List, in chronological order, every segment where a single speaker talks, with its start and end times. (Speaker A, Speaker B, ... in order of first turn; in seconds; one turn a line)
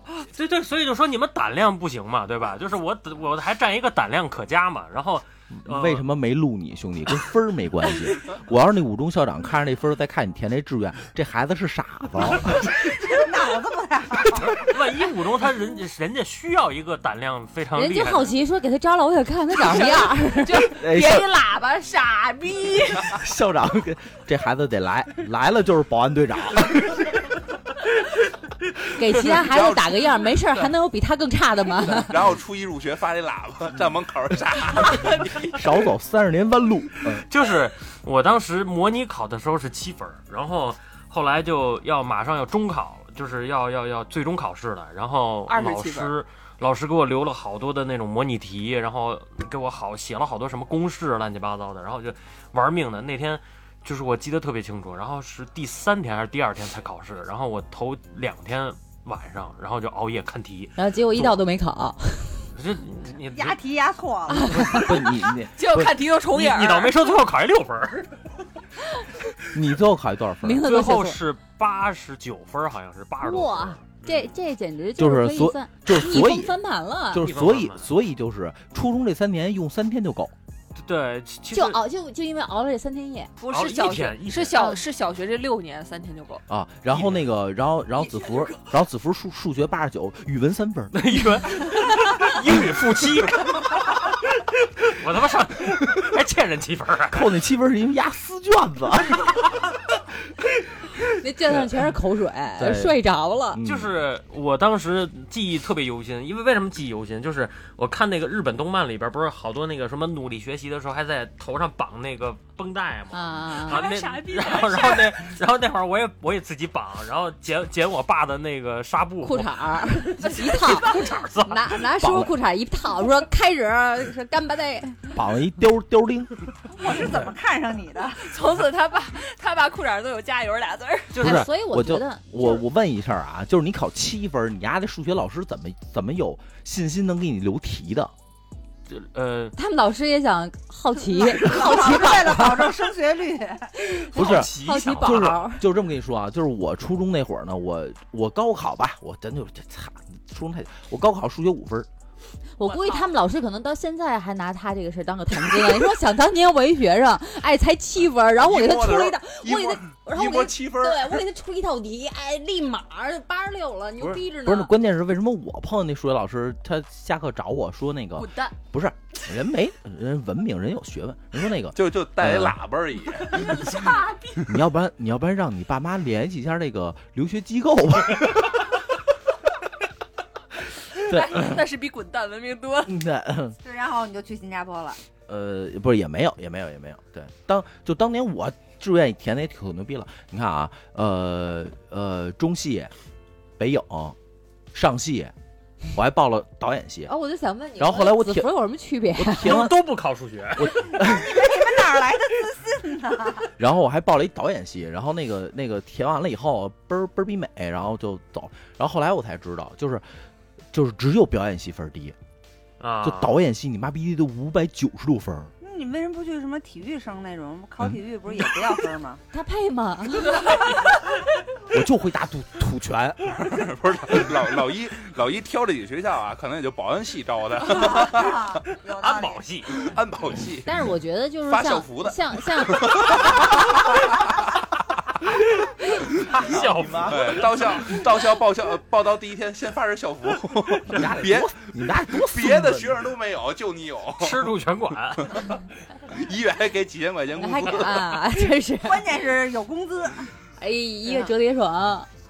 Speaker A: 0.2-6.0
Speaker B: 5.6-12.9
Speaker C: 12.8-14.6
Speaker A: 14.3-18.3
Speaker D: 17.8-20.8
Speaker E: 19.7-23.1
Speaker B: 20.8-21.3
Speaker B: 23.0-27.1
Speaker D: 29.0-32.1
Speaker F: 29.3-30.7
Speaker F: 31.9-35.6
Speaker B: 35.5-37.3
Speaker A: 37.1-61.2
Speaker E: 45.5-46.1
Speaker D: 60.8-62.4
Speaker A: 62.5-63.6
Speaker C: 63.3-64.8
Speaker D: 64.3-64.9
Speaker B: 64.5-66.0
Speaker E: 65.6-67.0
Speaker A: 66.3-68.2
Speaker B: 69.5-70.7
Speaker D: 70.4-71.2
Speaker A: 70.6-74.3
Speaker D: 73.2-77.2
Speaker B: 75.0-76.6
Speaker B: 77.1-80.3
Speaker A: 77.2-77.9
Speaker A: 80.8-81.8
Speaker D: 81.5-83.4
Speaker E: 83.4-86.4
Speaker A: 83.5-84.6
Speaker B: 86.5-91.0
Speaker A: 86.9-87.2
Speaker A: 90.9-97.3
Speaker B: 97.1-99.4
Speaker D: 101.2-103.6
Speaker B: 102.6-103.0
Speaker B: 103.5-103.9
Speaker A: 103.6-119.5
Speaker D: 113.1-113.8
Speaker E: 113.7-115.2
Speaker D: 119.2-125.1
Speaker E: 120.2-121.1
Speaker A: 120.7-121.7
Speaker B: 122.0-122.3
Speaker B: 125.1-126.3
Speaker C: 126.7-128.3
Speaker E: 128.2-131.2
Speaker A: 131.2-131.5
Speaker B: 131.2-138.1
Speaker D: 131.2-132.6
Speaker A: 138.9-139.6
Speaker D: 139.6-142.8
Speaker C: 141.1-143.8
Speaker D: 143.8-145.6
Speaker A: 144.1-145.4
Speaker B: 144.2-151.9
Speaker D: 152.6-164.7
Speaker E: 152.6-153.1
Speaker F: 158.4-161.2
Speaker B: 164.0-172.6
Speaker E: 168.2-168.6
Speaker F: 171.8-173.7
Speaker E: 173.7-174.2
Speaker B: 174.4-178.7
Speaker E: 181.0-182.9
Speaker B: 181.1-181.7
Speaker B: 182.8-183.6
Speaker C: 183.6-185.0
Speaker B: 185.3-192.9
Speaker B: 193.6-194.2
Speaker B: 194.7-195.3
Speaker B: 195.9-197.1
Speaker D: 197.1-199.7
Speaker B: 197.8-198.5
Speaker B: 199.2-199.8
Speaker A: 199.4-200.9
Speaker B: 200.5-201.5
Speaker C: 200.9-203.5
Speaker B: 203.6-210.0
Speaker B: 210.7-212.2
Speaker A: 212.8-213.3
Speaker B: 213.0-215.5
Speaker C: 215.6-219.2
Speaker D: 219.3-220.6
Speaker B: 221.7-223.4
Speaker F: 223.3-228.6
Speaker C: 227.9-229.4
Speaker A: 229.0-229.7
Speaker F: 229.7-230.7
Speaker D: 230.7-233.7
Speaker F: 231.5-234.4
Speaker A: 236.1-238.0
Speaker B: 236.5-237.4
Speaker F: 237.0-241.6
Speaker B: 240.8-243.0
Speaker F: 242.1-244.4
Speaker A: 244.2-245.4
Speaker F: 246.1-248.2
Speaker D: 247.4-249.1
Speaker C: 248.8-250.3
Speaker D: 250.6-252.1
Speaker E: 251.1-251.3